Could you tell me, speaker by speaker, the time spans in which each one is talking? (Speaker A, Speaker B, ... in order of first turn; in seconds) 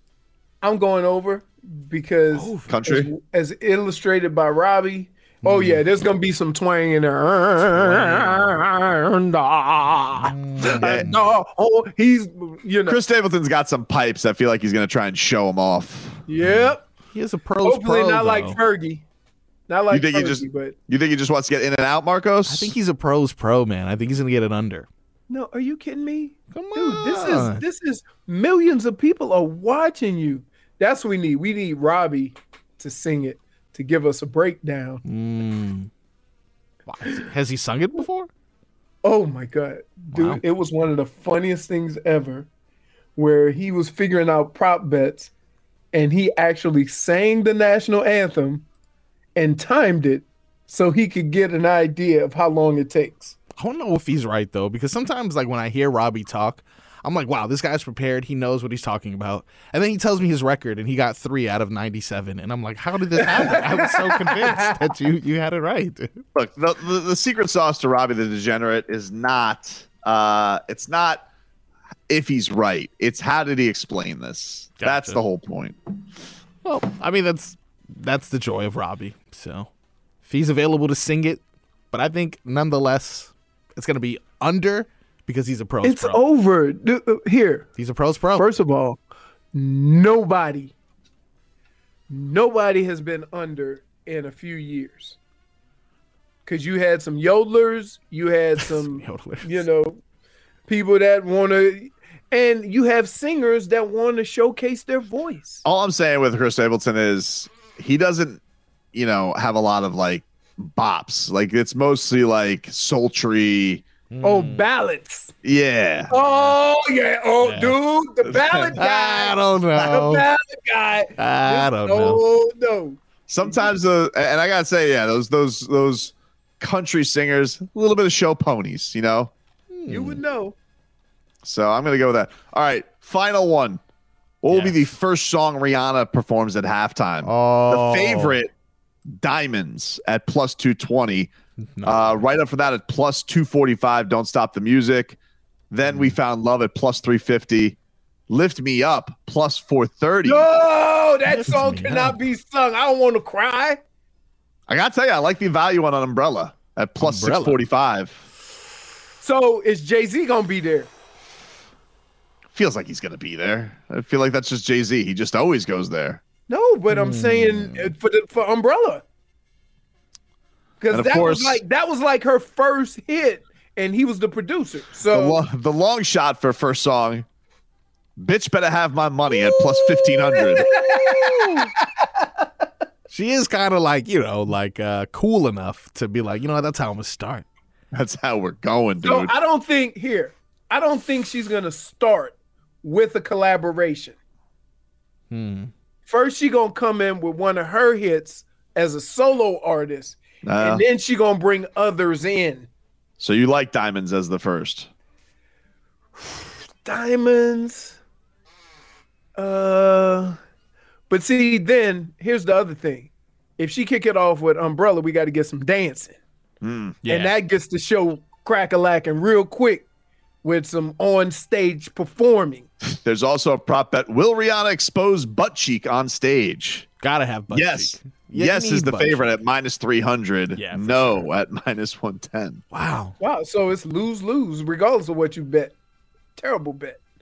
Speaker A: 0.6-13.0, 16.3-16.8, 17.6-19.0, 19.7-20.7, 25.3-35.0, 39.0-42.5, 43.1-45.3, 45.9-48.6, 49.4-53.4, 63.2-64.8, 85.8-87.7, 88.3-89.0, 89.5-90.7, 92.1-95.2, 96.5-100.0, 100.7-105.6, 114.2-115.3, 116.1-123.7, 129.9-130.6, 150.2-153.8, 159.2-160.9, 166.5-169.0, 170.8-175.4, 179.3-182.2, 189.0-194.2, 196.1-202.7, 206.8-208.0, 209.3-210.4, 211.1-216.1, 217.1-219.9, 220.4-222.7, 233.2-235.7, 236.3-237.0
Speaker B: 2.3-2.7, 5.4-5.8, 7.8-8.4, 10.2-11.2, 16.4-18.6, 22.5-24.9, 26.5-27.6, 35.0-35.9, 36.9-38.3, 40.1-40.4, 53.6-66.2, 74.8-75.2, 76.6-79.7, 80.2-81.4, 81.9-86.2, 87.8-88.5, 98.6-99.6, 114.1-114.7, 116.1-116.5, 117.4-117.8, 118.8-120.2, 121.2-122.2, 129.7-130.2, 134.5-134.9, 137.2-138.4, 141.8-142.2, 145.9-146.2, 151.3-152.2, 157.0-157.6, 166.9-167.9, 181.2-181.7, 183.1-187.4, 195.3-195.7, 217.0-217.3, 227.0-229.3, 230.5-231.3, 232.7-233.1
Speaker C: 2.7-3.1, 10.8-11.1, 12.8-16.2, 19.9-22.7, 66.3-71.2, 72.1-75.8, 105.6-108.4, 108.9-113.8, 115.4-116.1, 118.3-118.8, 123.3-129.3, 131.4-133.8, 134.4-138.5, 139.1-141.3, 141.8-145.2, 145.7-147.8, 148.3-150.5, 154.7-158.2, 162.5-166.2, 170.9-171.6, 175.1-177.2, 178.2-180.8, 187.9-189.3, 200.4-200.8, 203.2-204.9, 216.6-217.0, 223.0-226.9, 227.5-232.6